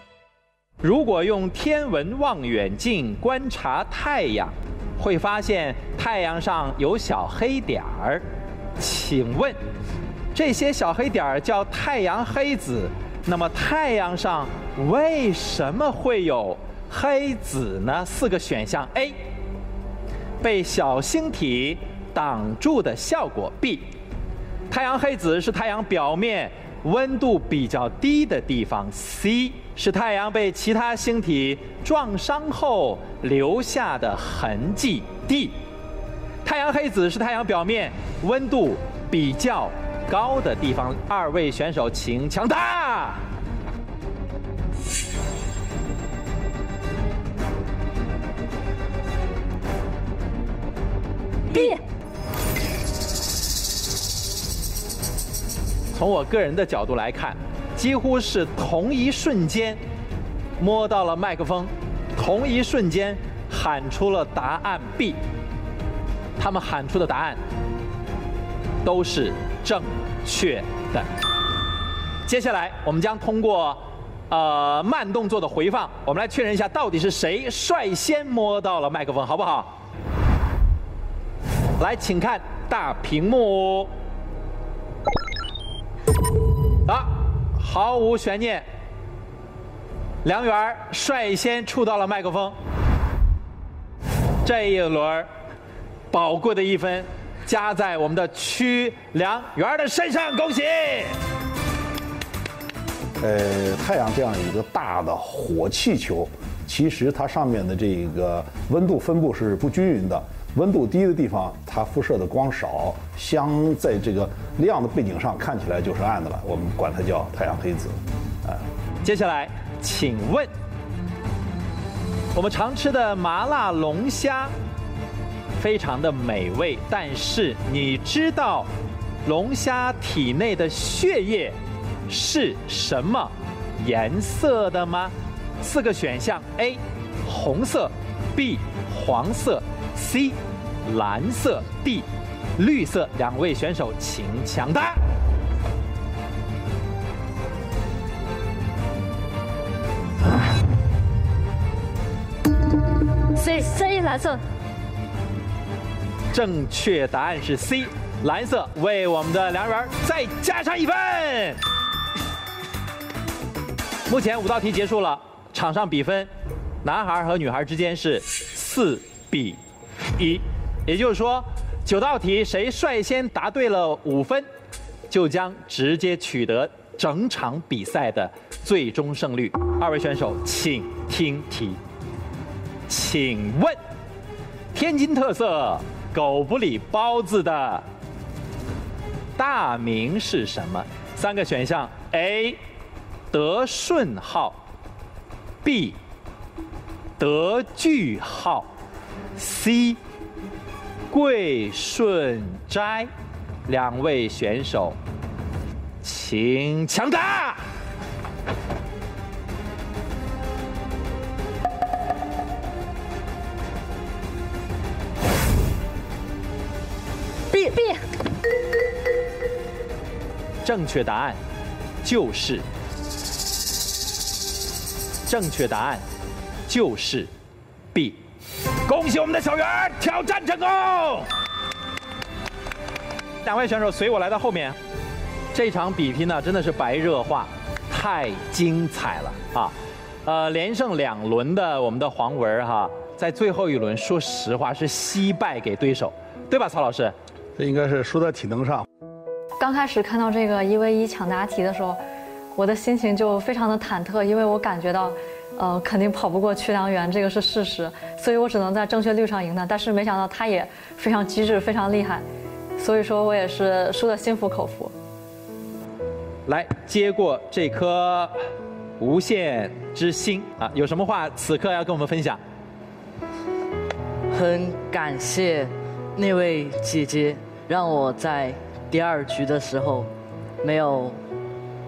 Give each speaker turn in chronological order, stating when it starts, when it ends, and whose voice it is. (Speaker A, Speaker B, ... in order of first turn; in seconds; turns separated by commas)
Speaker A: 0.8-8.2, Speaker A: 8.8-9.6, Speaker A: 10.3-19.1, Speaker A: 20.4-23.9, Speaker A: 24.7-35.5, Speaker A: 36.4-43.2, Speaker A: 51.5-51.8, Speaker B: 51.5-51.8, Speaker A: 55.9-59.8, Speaker A: 60.6-65.2, Speaker A: 66.4-67.4, Speaker A: 68.8-71.1, Speaker A: 72.2-79.7, Speaker A: 81.8-83.9, Speaker A: 86.8-88.6, Speaker A: 90.2-92.5, Speaker A: 94.4-95.3, Speaker A: 96.1-101.2, Speaker C: 103.2-118.6, Speaker A: 119.0-120.5, Speaker A: 122.3-124.5, Speaker A: 125.6-128.7, Speaker A: 129.2-131.6, Speaker A: 132.1-142.1, Speaker A: 142.6-145.0, Speaker B: 153.3-154.4, Speaker A: 156.3-161.6, Speaker A: 164.1-166.3, Speaker A: 166.8-169.6, Speaker A: 170.2-174.5, Speaker A: 175.1-181.8, Speaker A: 182.9-183.8, Speaker A: 184.7-187.8, Speaker A: 189.4-192.6, Speaker A: 193.3-194.6, Speaker A: 195.6-196.0, Speaker A: 197.2-198.7, Speaker A: 199.3-200.0, Speaker A: 201.1-203.1, Speaker A: 203.7-205.0, Speaker A: 206.0-207.6, Speaker B: 217.5-218.1, Speaker A: 220.6-221.4, Speaker A: 222.0-222.6, Speaker A: 225.3-226.0, Speaker A: 226.7-227.3, Speaker A: 228.8-231.3, Speaker A: 233.4-234.8, Speaker A: 235.5-247.1, Speaker C: 247.6-248.8, Speaker D: 249.6-252.0, Speaker D: 252.5-262.2, Speaker D: 262.8-264.9, Speaker A: 266.5-268.3, Speaker A: 269.0-272.4, Speaker E: 274.3-280.1, Speaker E: 280.6-281.2